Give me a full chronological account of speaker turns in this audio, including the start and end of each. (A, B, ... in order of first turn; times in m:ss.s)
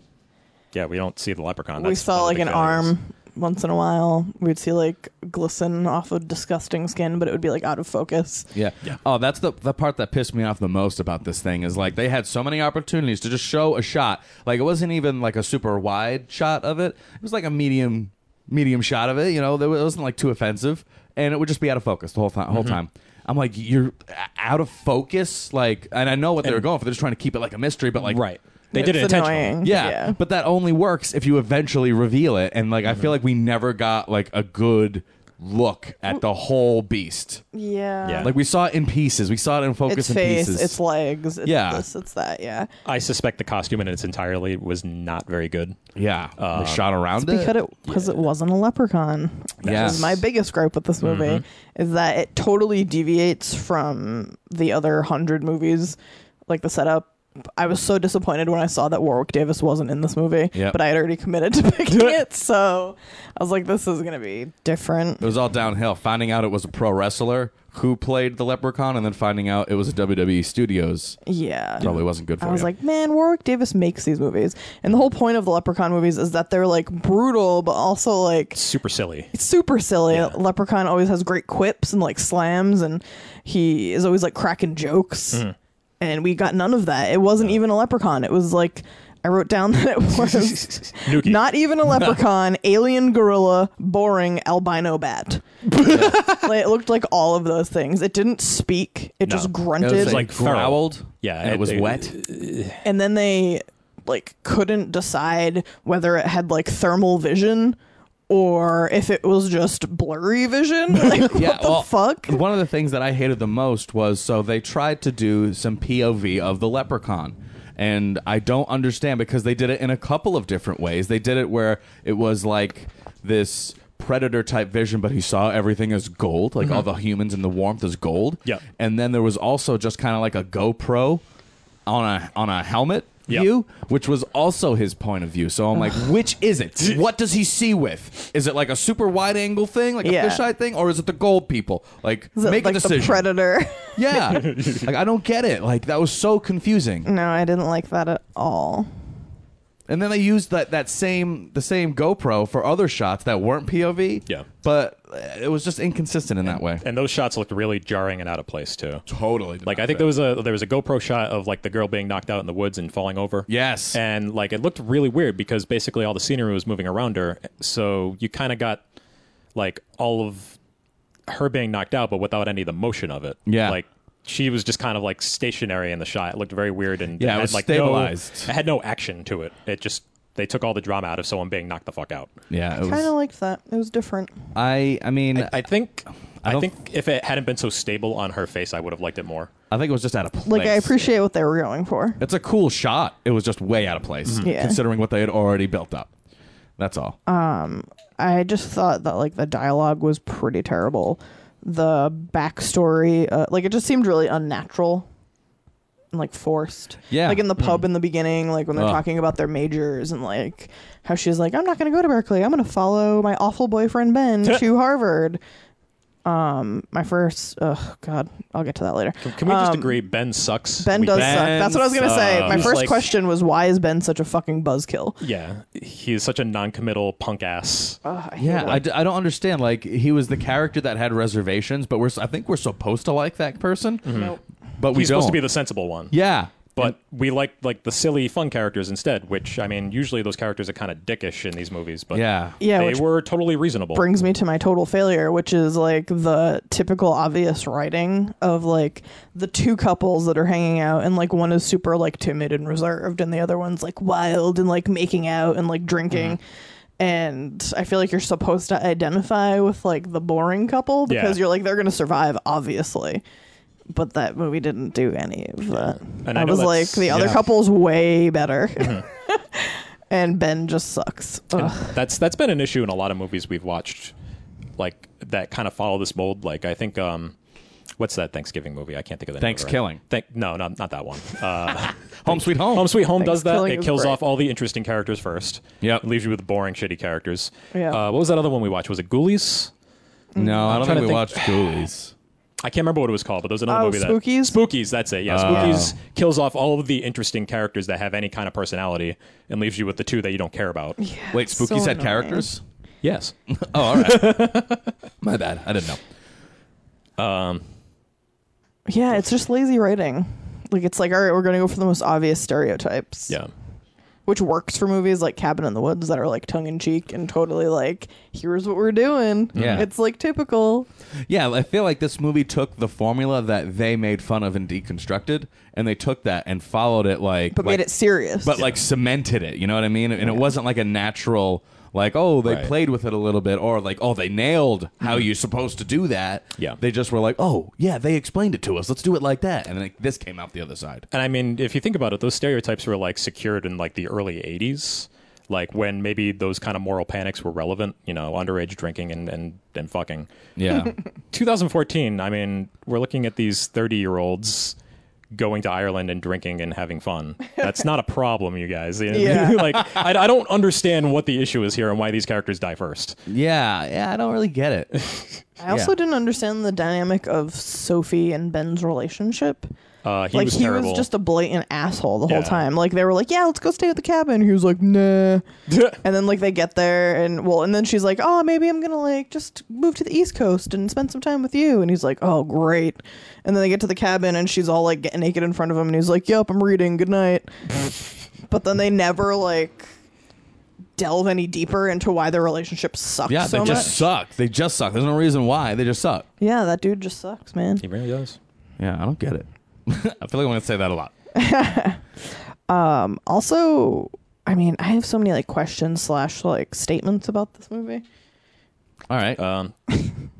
0:00.7-0:02.9 A
0:01.8-0:08.5 B
0:08.5-0:28.2 C
0:22.5-0:22.8 A
0:28.0-0:29.6 A
0:28.7-0:30.2 B
0:29.6-0:37.4 C
0:37.5-0:38.3 B
0:38.0-0:38.3 A
0:38.2-0:40.8 C
0:39.9-0:42.7 B
0:41.4-0:41.8 C
0:42.8-0:45.8 A
0:46.0-0:47.6 C
0:46.4-0:46.8 A
0:47.2-1:05.3 B
0:47.9-0:48.2 A
0:49.6-0:50.1 A
0:49.6-0:50.2 C
0:51.0-0:51.4 A
1:00.5-1:00.8 C
1:05.2-1:11.2 C
1:11.2-1:18.6 B
1:11.8-1:12.7 C
1:18.5-1:19.3 A
1:19.3-1:25.4 B
1:20.1-1:20.4 A
1:26.0-1:40.3 B
1:30.1-1:31.4 A
1:31.9-1:32.2 C
1:35.8-1:36.3 A
1:35.9-1:36.2 C
1:39.2-1:42.8 A
1:39.8-1:42.2 C
1:42.8-1:47.8 B
1:48.3-1:52.4 B
1:51.2-2:11.2 C
2:11.8-2:23.3 C
2:20.0-2:20.4 B
2:22.4-2:24.4 B
2:23.9-2:27.1 C
2:24.3-2:24.8 A
2:27.0-2:28.9 B
2:29.9-2:36.8 C
2:36.5-2:39.0 A
2:39.1-2:40.1 C
2:39.6-2:48.8 A
2:43.5-2:44.0 C
2:49.5-2:50.6 A
2:51.3-3:02.3 A
2:53.4-2:53.8 C
2:57.2-2:58.5 C
3:02.5-3:03.1 C
3:02.8-3:04.3 B
3:04.5-3:05.5 C
3:05.3-3:09.5 A
3:06.4-3:06.7 C
3:09.7-3:11.1 C
3:10.4-3:12.2 B
3:12.2-3:16.1 C
3:14.4-3:14.8 B
3:16.8-3:17.2 C
3:17.3-3:25.1 B
3:26.1-3:35.4 B
3:27.1-3:27.5 C
3:27.6-3:27.8 A
3:28.7-3:29.0 C
3:36.2-3:40.0 B
3:39.2-3:43.0 A
3:40.8-3:45.2 B
3:41.1-3:43.0 C
3:45.2-3:48.0 A
3:48.0-3:48.8 B
3:48.4-3:54.2 C
3:54.0-3:54.4 A
3:54.1-3:54.4 B
3:54.8-3:55.4 C
3:54.9-3:56.2 A
3:56.1-3:56.9 C
3:56.7-4:04.2 A
4:02.1-4:02.6 C
4:02.6-4:03.0 B
4:03.9-4:16.4 B
4:16.1-4:16.4 A
4:17.0-4:23.2 B
4:21.1-4:21.4 A
4:23.9-4:32.0 B
4:25.7-4:27.3 A
4:27.1-4:27.4 C
4:31.6-4:34.1 A
4:34.8-4:37.3 A
4:38.0-4:49.7 A
4:39.4-4:40.0 C
4:42.2-4:42.9 C
4:42.8-4:44.2 B
4:47.7-4:48.0 B
4:50.3-4:51.0 B
4:50.4-4:52.1 C
4:50.6-4:51.8 A
4:52.6-5:01.0 A
4:53.7-4:54.6 B
4:55.3-4:55.9 C
4:55.4-4:55.8 B
5:01.0-5:02.4 B
5:01.3-5:02.6 C
5:03.0-5:04.9 A
5:03.5-5:04.5 C
5:05.2-5:06.0 C
5:07.2-5:07.6 A
5:08.9-5:13.3 B
5:14.2-5:20.9 B
5:19.5-5:19.9 C
5:19.5-5:19.9 A
5:21.3-5:41.0 C
5:27.5-5:28.6 B
5:32.4-5:32.7 A
5:41.1-5:50.3 A
5:50.6-5:51.0 C
5:51.3-5:54.7 A
5:55.3-6:03.2 A
5:59.1-5:59.7 B
5:59.7-6:00.0 C
6:03.3-6:04.9 C
6:05.6-6:09.7 B
6:05.7-6:05.9 C
6:10.0-6:11.1 A
6:10.3-6:15.4 B
6:12.3-6:12.6 A
6:16.0-6:27.9 B
6:28.4-6:29.9 B
6:31.0-6:33.9 B
6:33.3-6:36.2 C
6:33.6-6:33.9 A
6:36.4-6:37.8 B
6:37.8-6:38.4 A
6:38.8-6:41.1 C
6:41.3-6:42.0 B
6:42.7-6:48.0 B
6:49.1-6:49.4 C
6:49.4-6:50.0 A